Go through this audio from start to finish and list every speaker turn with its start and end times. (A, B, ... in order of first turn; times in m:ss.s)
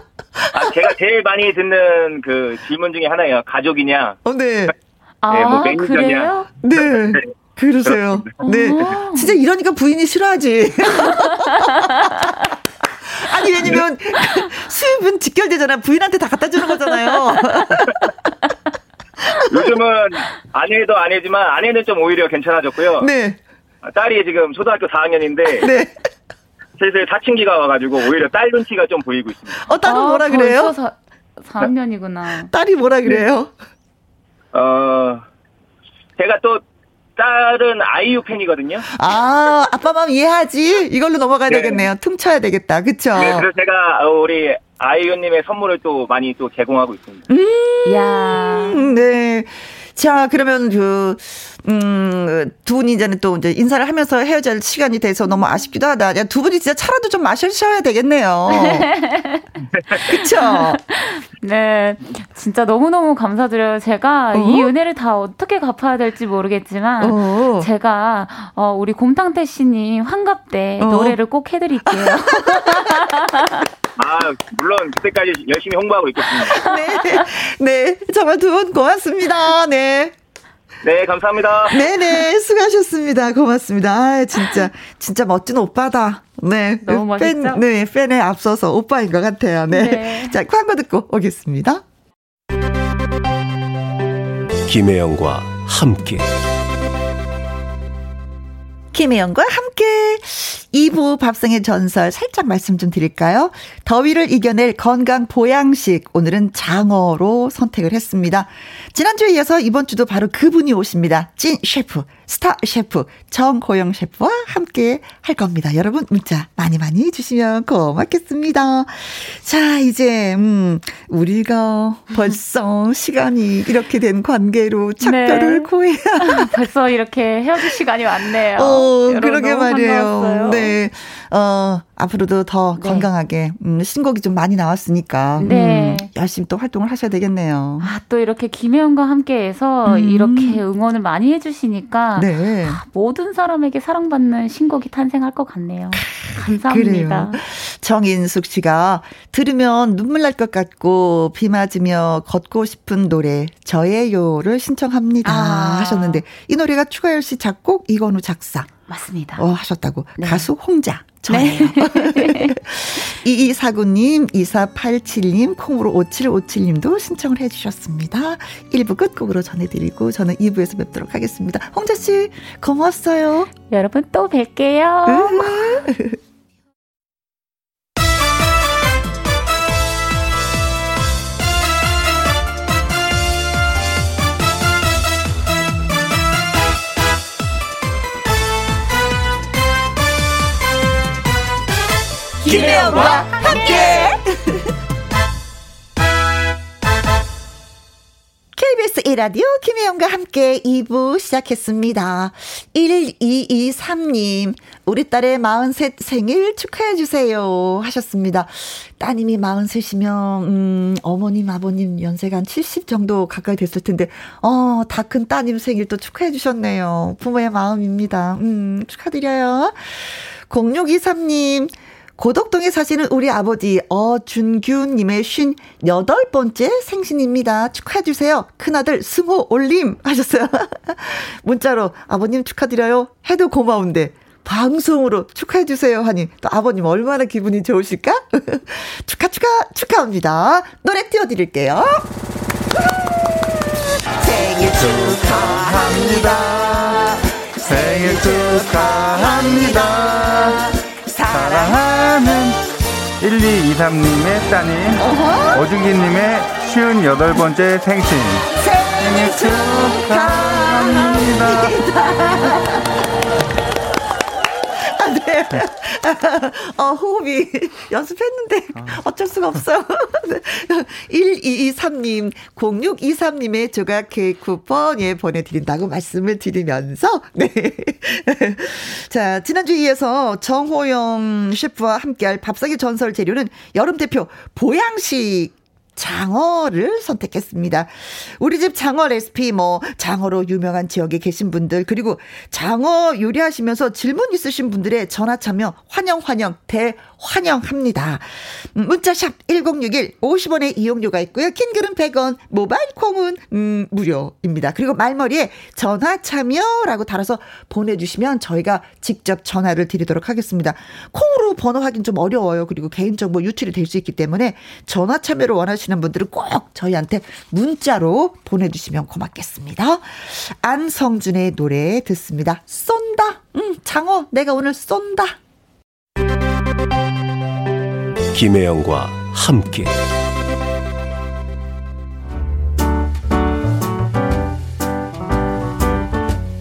0:00.5-0:04.2 A
0:04.2-0:04.7 B
0:05.2-0:06.5 C
0:05.3-0:07.2 A
0:06.6-0:12.5 B
0:07.9-0:08.2 A
0:08.4-0:09.4 C
0:11.2-0:12.1 C
0:13.0-0:18.0 B
0:19.4-0:23.1 A
0:23.0-0:23.4 B
0:23.8-0:25.7 A
0:25.6-0:25.9 B
0:26.8-0:29.6 A
0:29.6-0:30.7 B
0:29.8-0:32.5 C
0:32.5-0:33.5 B
0:34.5-0:35.2 A
0:36.2-0:36.6 A
0:37.2-0:38.9 A
0:38.9-0:43.5 B
0:41.5-0:41.9 A
0:43.1-0:47.3 A
0:47.3-0:58.9 B
0:47.8-0:48.9 C
0:58.5-0:59.4 C
0:59.7-1:00.1 A
1:00.1-1:00.8 B
1:00.3-1:13.6 C
1:04.3-1:04.7 B
1:07.0-1:07.7 B
1:10.8-1:11.2 B
1:11.8-1:13.1 B
1:14.0-1:16.7 A
1:16.5-1:20.1 B
1:20.8-1:21.8 A
1:21.7-1:31.8 B
1:26.8-1:27.6 C
1:29.7-1:30.4 C
1:34.7-1:36.3 D
1:38.9-2:06.5 B
2:05.0-2:10.7 C
2:08.5-2:17.9 B
2:12.8-2:13.1 C
2:15.4-2:16.1 C
2:17.8-2:27.4 C
2:19.9-2:20.6 B
2:22.2-2:22.8 B
2:25.9-2:38.7 B
2:35.2-2:36.2 C
2:38.9-2:39.4 C
2:39.4-2:53.5 B
2:40.2-2:40.5 C
2:41.3-2:42.5 C
2:53.7-2:55.8 C
2:55.1-2:56.2 B
3:12.4-3:14.7 B
3:12.5-3:13.2 C
3:18.5-4:02.1 B
4:02.9-4:03.1 B
4:04.2-4:11.8 B
4:04.7-4:07.0 E
4:07.6-4:10.7 E
4:11.3-4:21.8 E
4:14.9-4:15.7 B
4:18.5-4:22.9 B
4:24.6-5:25.4 B
5:28.3-5:29.9 D